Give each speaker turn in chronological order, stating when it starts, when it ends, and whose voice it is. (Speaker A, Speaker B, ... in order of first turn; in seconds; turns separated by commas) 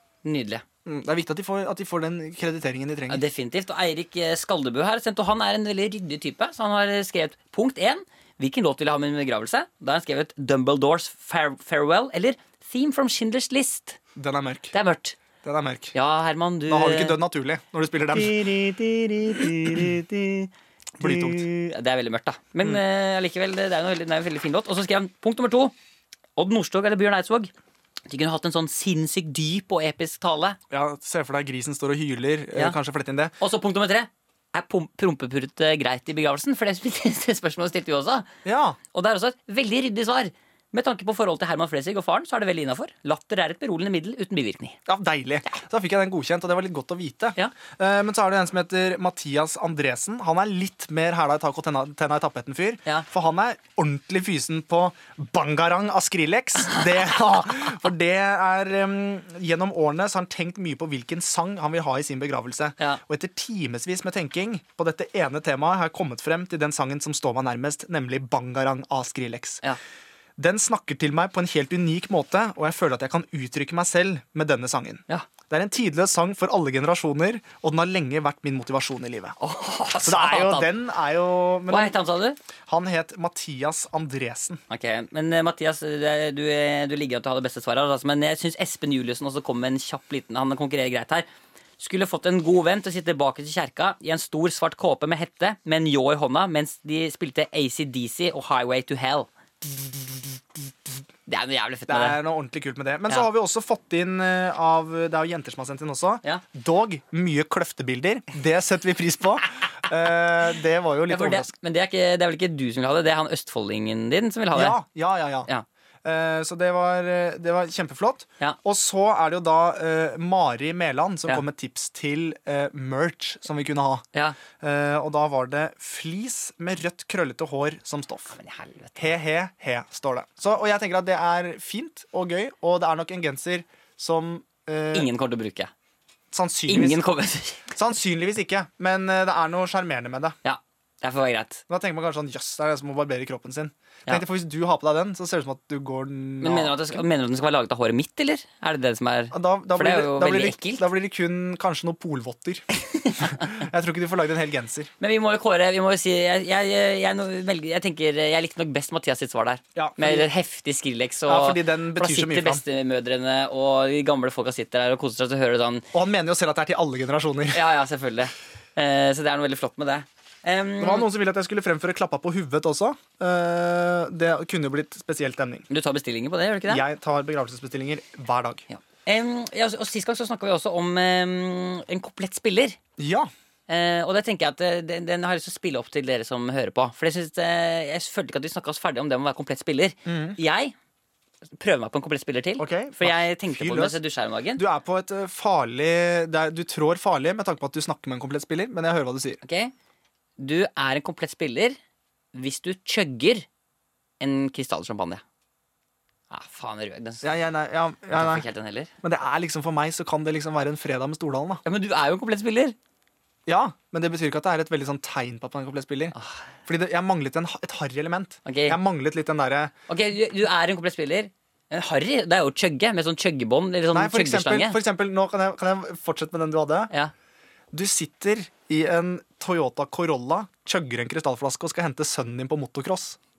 Speaker A: 0.2-0.6, Speaker B: 0.8-3.2, Speaker A: 3.1-14.0, Speaker B: 14.2-14.8, Speaker A: 14.7-15.2, Speaker B: 15.4-15.9, Speaker A: 15.9-17.2, Speaker B: 16.7-18.4, Speaker A: 18.1-25.7, Speaker B: 21.0-21.5, Speaker A: 26.4-27.5, Speaker A: 28.1-30.6, Speaker B: 30.7-33.3, Speaker A: 33.4-38.3, Speaker B: 38.5-38.8, Speaker A: 38.9-44.8, Speaker B: 44.9-69.6, Speaker B: 70.4-79.4, Speaker A: 79.4-80.7, Speaker B: 80.0-82.0, Speaker A: 81.7-82.4, Speaker B: 82.7-84.6, Speaker A: 84.7-91.3, Speaker A: 91.8-99.3, Speaker A: 101.3-102.2, Speaker B: 101.9-111.5, Speaker A: 111.1-114.8, Speaker B: 114.5-115.5, Speaker B: 116.0-124.0, Speaker B: 124.6-128.4, Speaker A: 128.4-129.2, Speaker B: 129.0-135.1, Speaker A: 134.9-135.7, Speaker B: 136.3-137.0, Speaker A: 136.7-137.7, Speaker B: 137.7-140.4, Speaker A: 140.4-141.6, Speaker B: 141.7-147.0, Speaker A: 146.4-150.9, Speaker B: 149.3-152.7, Speaker A: 152.9-153.6, Speaker B: 153.2-154.9, Speaker A: 155.0-165.9, Speaker B: 159.8-160.3, Speaker B: 161.3-162.6, Speaker B: 165.9-167.6, Speaker A: 167.5-171.1, Speaker B: 170.8-175.7, Speaker A: 175.7-176.8, Speaker B: 176.7-178.7, Speaker A: 178.7-182.8, Speaker B: 183.0-183.3, Speaker A: 183.7-190.7, Speaker B: 190.1-190.4, Speaker A: 191.6-194.6, Speaker B: 192.6-194.0, Speaker B: 194.6-199.4, Speaker A: 199.4-199.7, Speaker A: 200.4-201.8, Speaker A: 202.3-203.5, Speaker A: 204.2-205.2, Speaker A: 206.3-207.3, Speaker B: 207.2-208.4, Speaker A: 208.1-208.9, Speaker B: 209.0-211.6, Speaker A: 211.7-212.8, Speaker B: 213.5-216.2, Speaker A: 216.2-216.4, Speaker B: 216.7-219.7, Speaker A: 218.5-218.8, Speaker A: 219.9-224.8, Speaker B: 223.9-226.9, Speaker B: 227.7-233.2